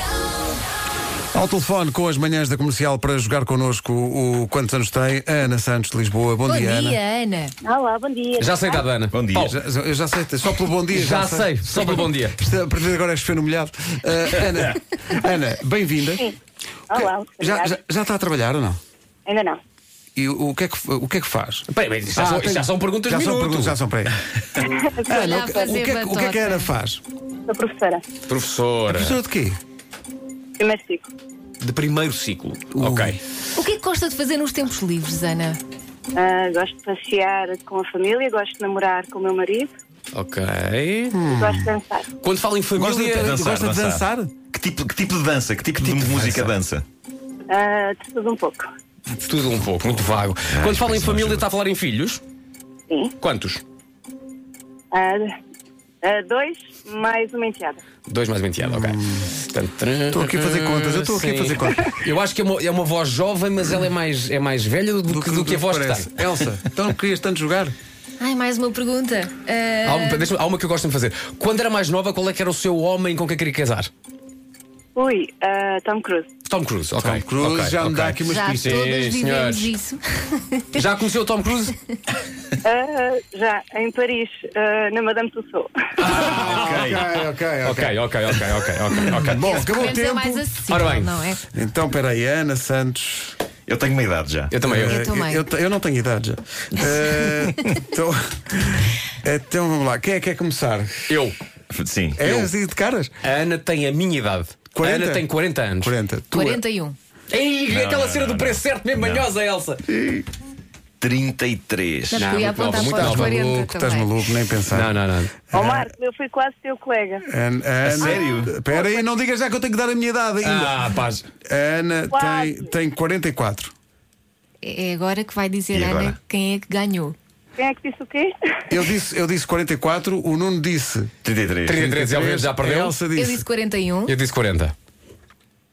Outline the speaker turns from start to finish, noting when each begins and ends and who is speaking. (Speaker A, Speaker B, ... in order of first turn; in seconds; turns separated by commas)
Speaker A: 1.3-7.0, Speaker B: 6.5-7.5, Speaker C: 7.6-8.8, Speaker D: 8.4-9.5, Speaker E: 9.1-9.6, Speaker A: 9.3-16.3, Speaker D: 10.9-12.4, Speaker C: 16.9-17.8, Speaker A: 16.9-18.8, Speaker C: 19.2-19.6, Speaker A: 20.1-24.2, Speaker D: 21.7-23.8, Speaker C: 24.6-25.6, Speaker A: 25.1-27.0, Speaker B: 25.1-26.7, Speaker C: 27.5-28.0, Speaker D: 28.3-29.2, Speaker A: 28.9-29.6, Speaker C: 30.6-31.1, Speaker D: 31.6-33.2, Speaker A: 32.7-33.2, Speaker B: 33.5-35.6, Speaker C: 36.1-39.7, Speaker D: 40.1-41.1, Speaker A: 41.1-41.7, Speaker C: 41.3-42.0, Speaker D: 42.2-43.4, Speaker A: 42.8-44.4, Speaker E: 43.1-46.8, Speaker A: 45.8-46.5, Speaker C: 47.5-48.7, Speaker D: 49.1-52.2, Speaker E: 49.8-51.4, Speaker D: 53.2-53.6, Speaker C: 54.9-55.3, Speaker C: 56.0-57.8, Speaker D: 58.1-66.5, Speaker A: 58.6-59.3, Speaker A: 60.1-61.9, Speaker A: 65.1-67.7, Speaker B: 68.2-70.3, Speaker D: 69.8-73.9, Speaker C: 74.9-76.3, Speaker D: 76.5-79.7, Speaker A: 77.0-78.9, Speaker B: 78.2-80.8, Speaker D: 80.7-81.7, Speaker C: 82.6-86.2, Speaker D: 86.0-87.0, Speaker A: 86.0-88.0, Speaker E: 86.2-87.0, Speaker D: 87.6-89.9, Speaker A: 89.0-90.5, Speaker B: 89.3-91.4, Speaker D: 90.7-91.1, Speaker A: 91.4-93.3, Speaker E: 93.7-94.5, Speaker D: 94.5-95.0, Speaker A: 94.6-100.9, Speaker B: 94.8-95.4, Speaker D: 101.1-101.3, Speaker E: 101.7-102.2, Speaker A: 102.2-103.1, Speaker D: 102.2-102.5, Speaker D: 103.2-105.9, Speaker A: 104.7-105.2, Speaker A: 105.8-106.6, Speaker B: 106.3-107.0, Speaker D: 107.3-109.8, Speaker E: 107.7-109.3, Speaker A: 109.9-110.3, Speaker E: 111.0-112.2, Speaker B: 112.1-114.2, Speaker D: 112.1-113.7, Speaker A: 112.7-115.0, Speaker D: 114.7-115.3, Speaker A: 115.5-115.9, Speaker C: 115.5-117.2, Speaker A: 117.3-120.9, Speaker E: 117.8-118.5, Speaker C: 117.9-119.0, Speaker D: 120.4-121.3, Speaker A: 121.4-123.7, Speaker C: 122.1-122.7, Speaker B: 124.6-127.1, Speaker E: 125.7-126.2, Speaker C: 127.6-128.3, Speaker A: 128.7-131.1, Speaker E: 131.2-131.8, Speaker D: 131.7-132.9, Speaker A: 131.7-133.4, Speaker B: 133.1-134.1, Speaker D: 134.1-134.7